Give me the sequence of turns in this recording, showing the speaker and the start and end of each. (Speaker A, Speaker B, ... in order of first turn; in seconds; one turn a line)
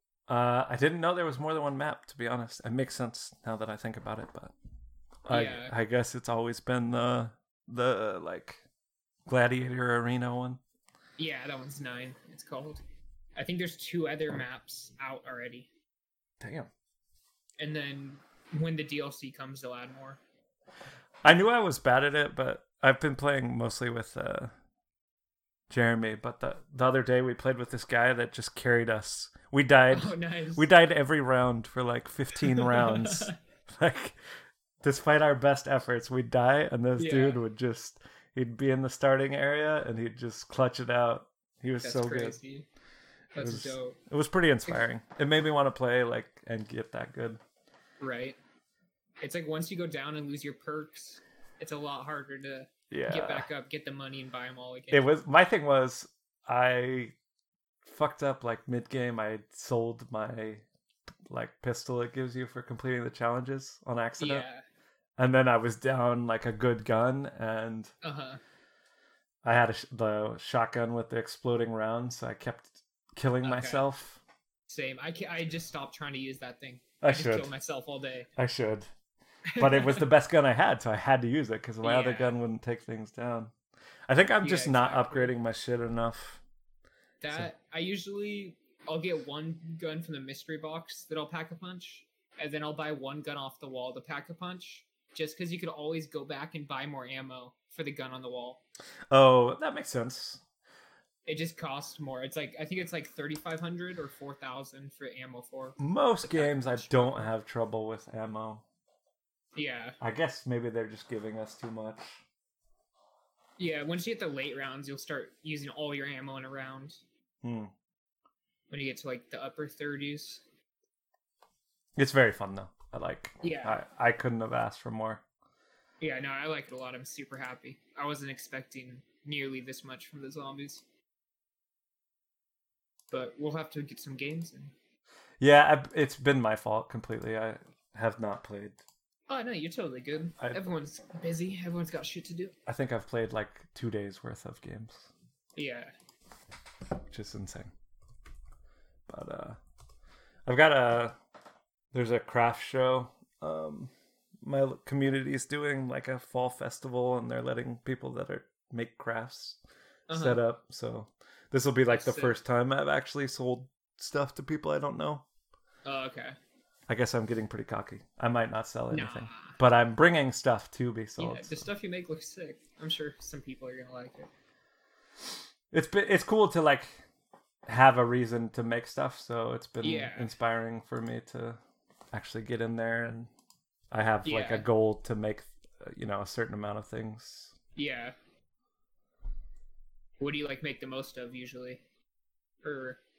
Speaker A: 0.3-4.5
Speaker A: 5.2-8.6
Speaker B: 5.3-5.7
Speaker A: 9.2-10.6
Speaker B: 11.2-12.8
Speaker B: 13.3-15.7
Speaker A: 16.4-16.7
Speaker B: 17.6-20.2
Speaker A: 21.2-24.5
Speaker A: 25.7-34.2
Speaker B: 29.9-30.7
Speaker B: 32.6-33.3
Speaker A: 34.8-42.4
Speaker B: 37.0-37.4
Speaker B: 41.8-42.7
Speaker B: 43.3-44.0
Speaker A: 43.4-47.4
Speaker B: 48.0-48.4
Speaker B: 49.2-55.1
Speaker A: 52.9-53.5
Speaker A: 54.9-57.1
Speaker A: 57.8-60.6
Speaker A: 61.3-64.5
Speaker B: 64.2-64.6
Speaker A: 65.2-67.9
Speaker B: 68.0-68.4
Speaker A: 69.4-74.2
Speaker B: 73.4-73.8
Speaker B: 74.7-78.3
Speaker A: 77.0-77.5
Speaker A: 78.4-78.9
Speaker B: 79.5-80.1
Speaker A: 79.5-83.5
Speaker B: 81.8-82.3
Speaker A: 84.1-86.4
Speaker B: 84.4-85.3
Speaker B: 87.2-98.6
Speaker A: 99.1-100.4
Speaker B: 101.2-107.3
Speaker A: 105.8-108.6
Speaker B: 109.5-110.0
Speaker A: 110.0-112.2
Speaker B: 113.6-117.0
Speaker A: 117.4-117.7
Speaker B: 118.7-120.4
Speaker A: 122.0-125.2
Speaker B: 123.4-123.8
Speaker B: 126.0-130.8
Speaker B: 133.1-134.7
Speaker A: 135.4-138.8
Speaker B: 139.3-142.5
Speaker A: 140.4-140.7
Speaker A: 142.7-145.1
Speaker B: 145.6-145.9
Speaker A: 147.1-147.7
Speaker A: 149.1-149.6
Speaker A: 150.4-151.1
Speaker A: 151.9-165.2
Speaker B: 160.1-160.4
Speaker B: 161.9-162.4
Speaker B: 165.8-166.3
Speaker A: 166.9-171.7
Speaker B: 168.9-169.6
Speaker B: 171.2-174.3
Speaker A: 175.7-177.0
Speaker A: 177.7-181.6
Speaker B: 179.8-180.3
Speaker A: 182.1-183.3
Speaker A: 183.9-187.5
Speaker B: 184.2-184.7
Speaker B: 187.8-188.2
Speaker B: 190.2-191.8
Speaker B: 192.6-193.0